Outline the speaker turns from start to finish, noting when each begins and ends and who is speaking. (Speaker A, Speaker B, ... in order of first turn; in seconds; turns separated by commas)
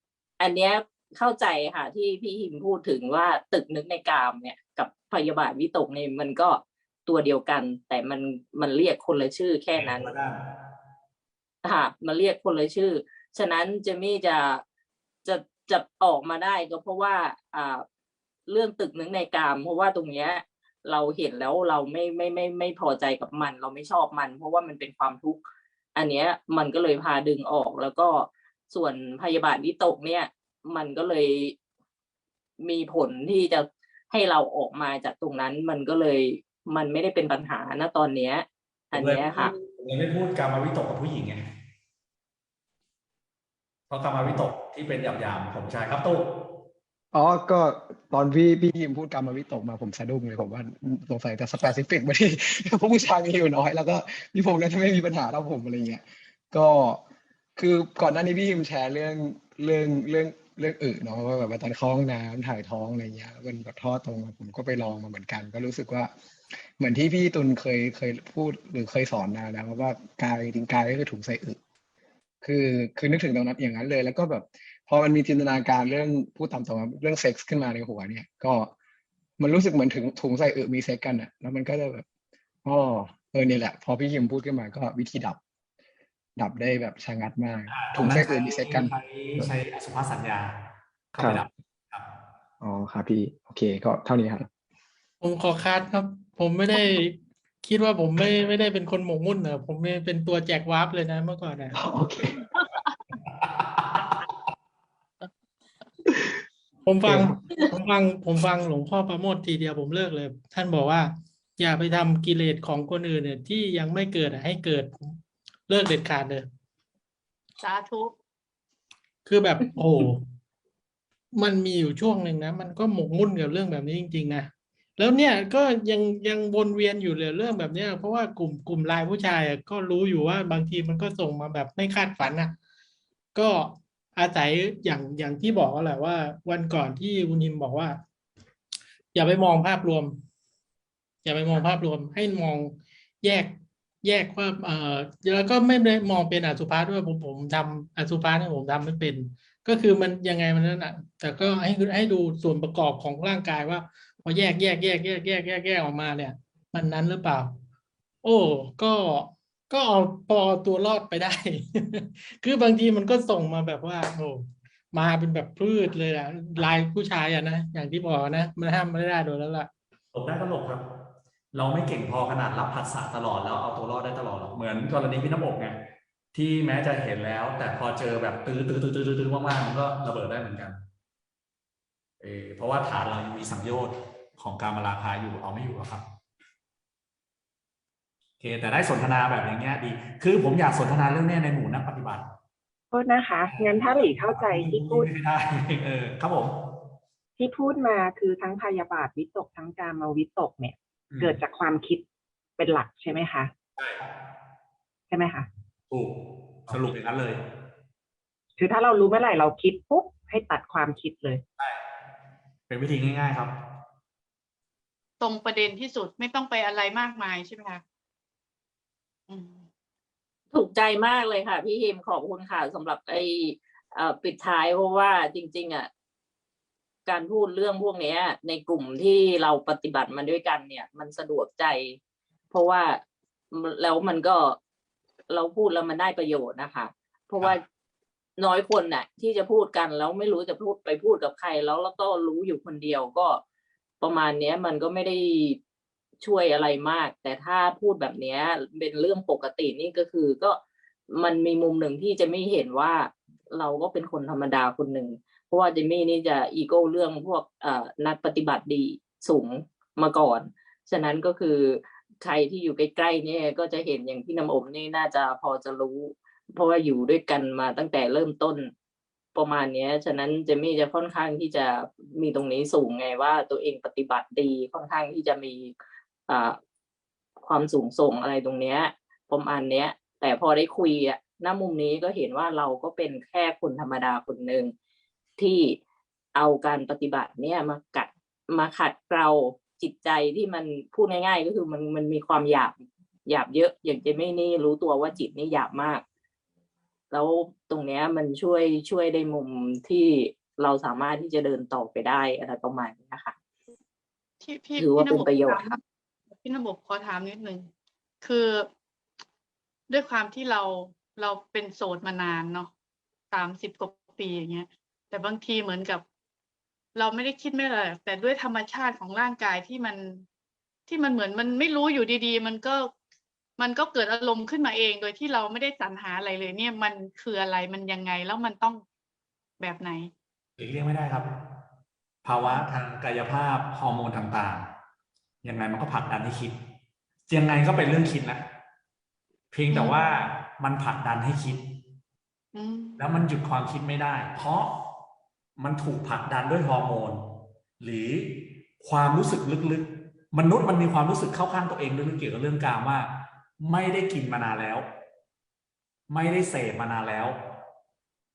Speaker A: 0.4-10.1, Speaker B: 9.7-10.4, Speaker A: 11.6-14.6, Speaker A: 15.2-17.8, Speaker A: 18.5-25.4, Speaker A: 25.9-31.6, Speaker A: 32.6-39.5, Speaker B: 38.9-41.5, Speaker B: 43.9-46.5, Speaker C: 47.1-57.0, Speaker C: 57.6-66.1, Speaker C: 66.8-71.6, Speaker C: 72.4-78.7, Speaker C: 79.4-82.0, Speaker C: 82.6-85.4, Speaker C: 86.3-89.5, Speaker B: 87.7-90.6, Speaker B: 91.1-92.1, Speaker C: 91.2-91.4, Speaker C: 92.6-94.5, Speaker D: 95.2-101.8, Speaker C: 101.7-102.4, Speaker D: 106.8-116.5, Speaker E: 117.6-118.1, Speaker D: 119.2-120.2, Speaker D: 121.3-132.5, Speaker D: 133.3-138.0, Speaker D: 139.1-140.2, Speaker D: 141.2-157.6, Speaker D: 158.2-169.7, Speaker B: 170.1-170.8, Speaker B: 171.5-175.8, Speaker B: 176.3-180.8, Speaker B: 182.2-186.0, Speaker B: 188.4-192.3, Speaker F: 192.9-195.1, Speaker B: 193.4-196.8, Speaker F: 197.4-202.1, Speaker B: 201.1-201.4, Speaker F: 202.6-203.5, Speaker B: 203.8-204.1, Speaker F: 205.1-205.5, Speaker B: 205.9-207.4, Speaker F: 208.6-211.4, Speaker B: 212.7-213.6, Speaker E: 215.2-217.8, Speaker E: 219.3-219.7, Speaker A: 220.5-225.9, Speaker A: 227.1-232.0, Speaker A: 232.5-233.0, Speaker A: 233.5-234.6, Speaker A: 235.3-237.6, Speaker A: 238.4-243.4, Speaker A: 244.0-245.6, Speaker A: 246.2-250.6, Speaker A: 251.1-268.7, Speaker A: 269.3-275.7, Speaker A: 276.3-276.6, Speaker A: 277.4-284.7, Speaker A: 285.4-285.8, Speaker A: 286.3-296.0, Speaker A: 297.1-303.3, Speaker E: 304.4-305.8, Speaker A: 304.8-305.8, Speaker E: 306.4-307.7, Speaker E: 308.2-308.7, Speaker E: 309.9-312.7, Speaker E: 313.3-316.0, Speaker E: 316.9-320.2, Speaker E: 320.9-322.9, Speaker E: 323.6-328.8, Speaker E: 329.6-330.1, Speaker B: 330.6-331.3, Speaker B: 332.2-334.7, Speaker E: 332.3-332.6, Speaker B: 335.4-336.6, Speaker B: 337.3-338.4, Speaker B: 339.5-341.6, Speaker E: 339.7-340.2, Speaker E: 342.5-343.2, Speaker B: 343.0-344.7, Speaker B: 345.6-354.9, Speaker B: 356.1-357.4